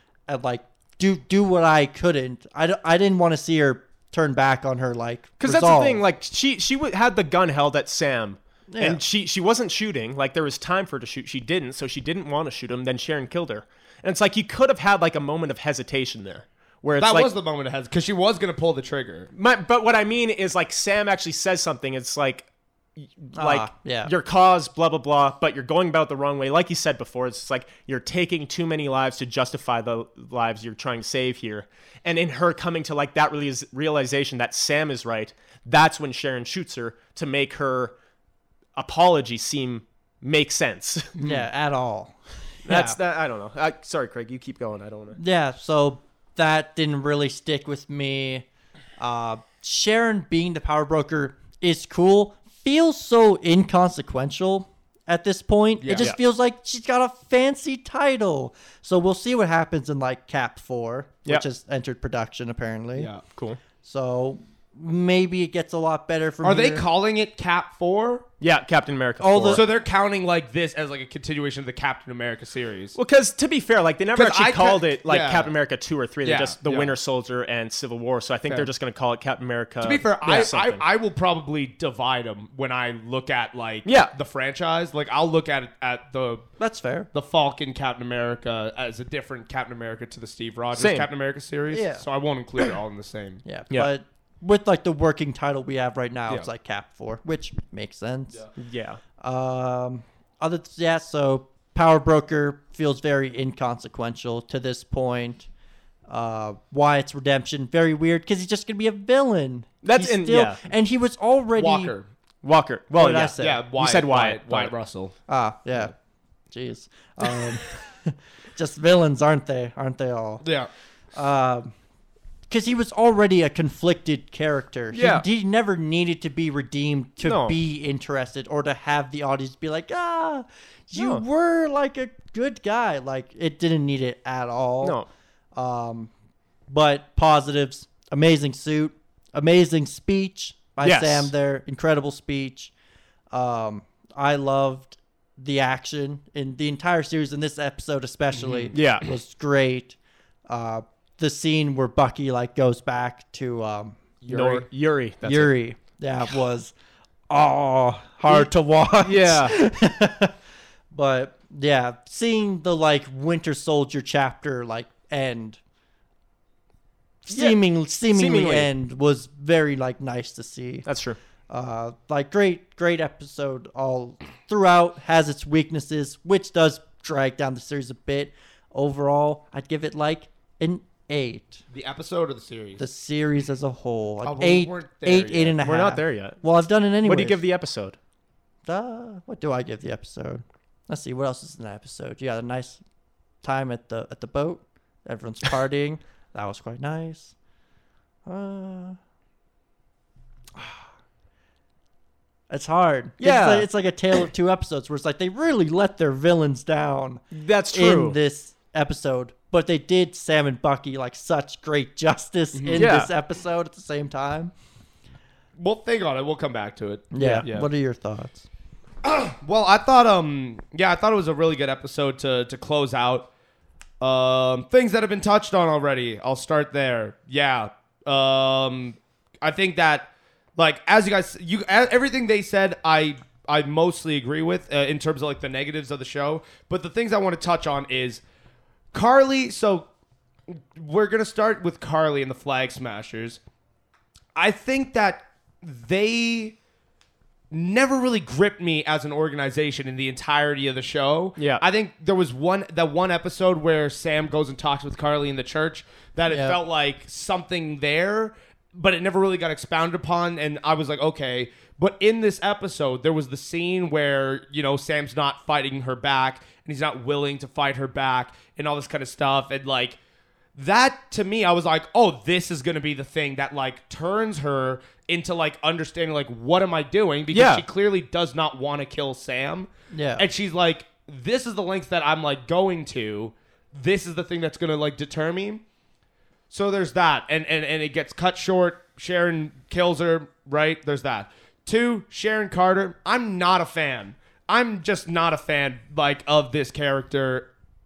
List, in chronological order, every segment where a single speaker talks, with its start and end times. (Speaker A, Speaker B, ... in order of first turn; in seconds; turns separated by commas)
Speaker A: 0.3-6.0, Speaker B: 5.4-17.3, Speaker A: 8.7-9.0, Speaker C: 17.0-19.3, Speaker B: 19.3-37.9, Speaker A: 23.4-24.1, Speaker B: 38.8-41.3, Speaker A: 41.2-43.0, Speaker B: 42.6-45.2, Speaker A: 45.1-48.5, Speaker A: 49.0-63.1, Speaker C: 55.8-56.1, Speaker C: 63.0-63.2, Speaker B: 63.3-63.6, Speaker A: 63.8-66.8, Speaker C: 66.4-68.2, Speaker B: 68.4-69.6, Speaker A: 69.2-69.6, Speaker C: 69.5-73.0, Speaker B: 73.0-80.8, Speaker C: 74.1-75.5, Speaker C: 76.2-76.9, Speaker C: 79.8-86.5, Speaker B: 83.8-84.1, Speaker A: 86.6-87.1, Speaker C: 87.1-93.4, Speaker B: 90.8-91.1, Speaker A: 91.7-92.0, Speaker A: 93.4-98.4, Speaker B: 98.6-99.0, Speaker A: 99.2-105.5, Speaker A: 106.1-111.9, Speaker B: 109.8-110.6, Speaker C: 111.6-112.1, Speaker B: 112.4-114.7, Speaker A: 112.9-113.6, Speaker C: 113.4-115.1, Speaker A: 115.3-115.9, Speaker A: 116.5-120.4, Speaker C: 120.4-120.7, Speaker A: 121.1-121.7, Speaker A: 122.5-135.0, Speaker B: 124.9-125.2, Speaker B: 127.2-127.5, Speaker B: 130.9-131.2, Speaker B: 134.8-135.1, Speaker A: 135.6-136.1, Speaker A: 136.7-142.7, Speaker B: 140.8-141.3, Speaker A: 143.3-149.9, Speaker C: 148.3-148.8, Speaker B: 148.7-149.1, Speaker A: 150.5-154.0, Speaker C: 154.2-154.7, Speaker B: 154.3-155.6, Speaker A: 155.2-156.7, Speaker A: 157.3-160.3, Speaker B: 159.0-159.6, Speaker A: 160.9-165.6, Speaker A: 167.2-170.8, Speaker B: 167.3-168.7, Speaker B: 170.8-171.2, Speaker A: 171.5-181.6, Speaker C: 181.7-182.8, Speaker A: 182.8-187.4, Speaker C: 184.2-185.6, Speaker B: 185.6-186.4, Speaker B: 187.0-188.0, Speaker A: 188.6-192.8, Speaker A: 193.4-197.3, Speaker A: 198.2-199.0, Speaker A: 200.6-200.8, Speaker A: 202.5-214.5, Speaker B: 203.2-203.7, Speaker B: 207.3-208.2, Speaker C: 212.5-212.8, Speaker B: 212.7-213.1, Speaker C: 215.6-217.7, Speaker A: 217.1-218.5, Speaker C: 219.0-223.3, Speaker C: 224.0-238.2, Speaker C: 238.9-239.9, Speaker C: 240.5-243.4, Speaker C: 244.3-246.6, Speaker C: 247.5-270.0, Speaker B: 251.4-251.6, Speaker A: 256.3-256.6, Speaker C: 270.6-285.6, Speaker B: 277.3-277.6, Speaker A: 279.9-280.2, Speaker C: 286.5-297.5